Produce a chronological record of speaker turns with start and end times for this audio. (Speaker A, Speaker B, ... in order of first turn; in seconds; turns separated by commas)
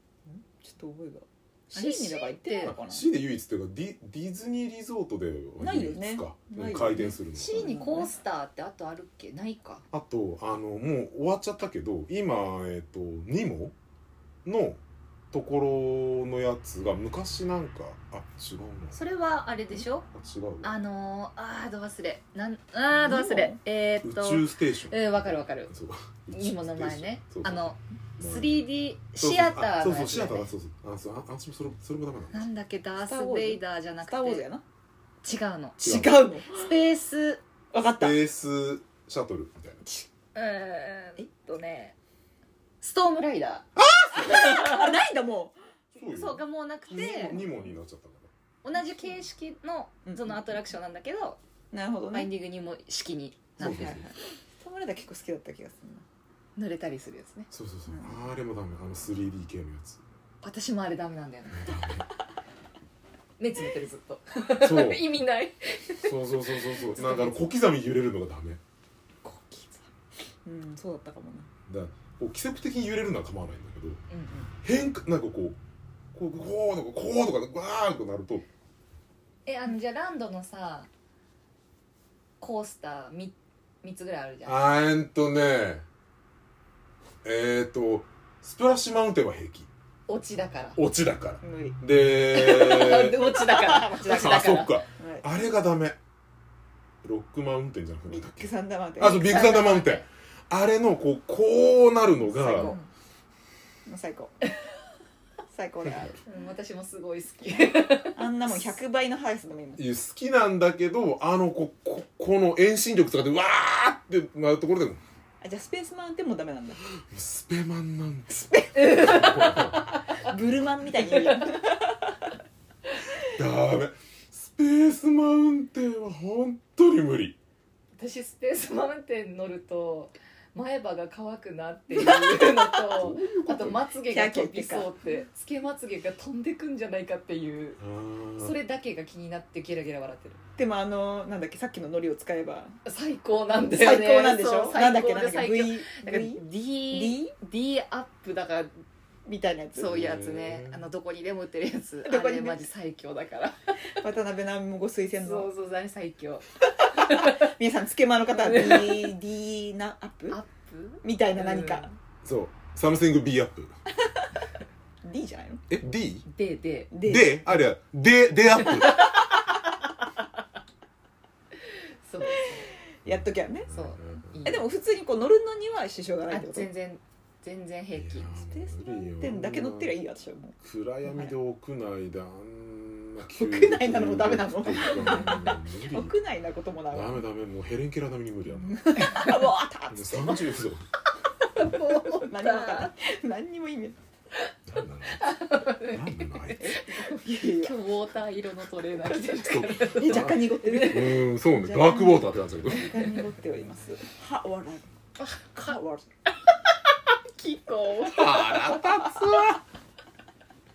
Speaker A: 0.2-3.1, Speaker B: 1.7-2.7, Speaker C: 2.6-7.7, Speaker A: 5.6-8.1, Speaker B: 7.3-9.8, Speaker C: 9.9-13.7, Speaker C: 14.4-14.8, Speaker C: 15.3-19.0, Speaker B: 18.9-20.1, Speaker C: 20.1-20.7, Speaker B: 20.6-25.7, Speaker A: 22.9-23.6, Speaker C: 24.0-28.6, Speaker B: 26.3-30.5, Speaker C: 29.2-32.5, Speaker B: 32.3-34.4, Speaker A: 33.0-34.6, Speaker B: 35.2-35.8, Speaker C: 35.8-36.1, Speaker A: 35.8-36.5, Speaker B: 36.5-37.4, Speaker A: 37.7-38.2, Speaker C: 38.0-39.8, Speaker B: 40.4-42.0, Speaker B: 42.8-43.7, Speaker C: 43.8-44.5, Speaker A: 44.2-45.5, Speaker B: 44.2-44.9, Speaker C: 46.0-48.3, Speaker B: 46.1-47.4, Speaker A: 47.0-47.4, Speaker B: 48.6-51.4, Speaker A: 50.0-50.5, Speaker A: 51.7-52.3, Speaker B: 52.1-54.1, Speaker C: 53.6-54.1, Speaker A: 53.6-56.0, Speaker B: 56.5-57.5, Speaker C: 57.5-60.0, Speaker A: 57.9-58.2, Speaker B: 60.4-61.9, Speaker C: 61.5-62.0, Speaker B: 63.4-67.3, Speaker C: 64.6-65.0, Speaker C: 66.0-68.6, Speaker A: 69.2-69.9, Speaker A: 70.4-71.5, Speaker C: 71.7-74.0, Speaker B: 74.1-74.5, Speaker C: 74.6-75.6, Speaker C: 76.1-78.5, Speaker B: 79.5-80.9, Speaker B: 82.4-84.6, Speaker C: 84.4-85.9, Speaker C: 87.2-89.7, Speaker B: 90.1-90.8, Speaker C: 90.8-93.2, Speaker A: 91.4-91.8, Speaker B: 92.3-94.8, Speaker A: 93.2-95.3, Speaker C: 94.0-96.0, Speaker C: 97.0-102.7, Speaker A: 98.1-99.6, Speaker B: 99.0-100.0, Speaker A: 102.3-102.9, Speaker B: 102.5-102.8, Speaker A: 103.9-104.3, Speaker A: 105.5-106.2, Speaker B: 106.2-108.2, Speaker A: 108.1-109.8, Speaker C: 109.8-115.0, Speaker A: 115.4-116.8, Speaker C: 116.9-119.9, Speaker A: 118.3-119.4, Speaker B: 118.8-120.0, Speaker A: 120.2-122.3, Speaker B: 121.1-121.5, Speaker C: 123.2-127.4, Speaker B: 128.0-137.8, Speaker A: 131.9-132.4, Speaker C: 132.9-133.8, Speaker A: 134.0-134.9, Speaker C: 137.8-138.5, Speaker B: 138.4-140.4, Speaker A: 140.6-142.8, Speaker B: 142.8-148.7, Speaker A: 143.7-147.2, Speaker A: 149.2-150.0, Speaker B: 149.8-153.9, Speaker C: 149.9-150.9, Speaker A: 152.0-152.7, Speaker A: 154.0-155.5, Speaker B: 155.2-157.5, Speaker A: 156.9-160.4, Speaker B: 158.3-159.1, Speaker B: 160.3-161.9, Speaker A: 161.0-161.9, Speaker C: 162.2-163.8, Speaker A: 165.0-165.6, Speaker C: 165.7-166.2, Speaker B: 166.3-166.9, Speaker A: 166.9-167.6, Speaker C: 167.0-169.1, Speaker B: 168.7-169.4, Speaker B: 172.0-172.8, Speaker A: 173.0-173.7, Speaker C: 173.1-174.4, Speaker B: 173.7-174.6, Speaker A: 174.4-176.7, Speaker B: 176.3-178.4, Speaker C: 177.9-179.9, Speaker A: 178.4-181.3, Speaker C: 180.6-186.1, Speaker A: 183.4-187.2, Speaker C: 186.9-189.2, Speaker A: 188.6-190.5, Speaker C: 189.9-190.9, Speaker B: 191.5-192.9, Speaker A: 191.7-194.0, Speaker C: 194.7-196.7, Speaker B: 195.2-201.2, Speaker A: 196.6-197.7, Speaker C: 199.4-202.9, Speaker A: 199.9-204.9, Speaker B: 205.2-209.1, Speaker A: 205.7-206.0, Speaker C: 208.1-209.6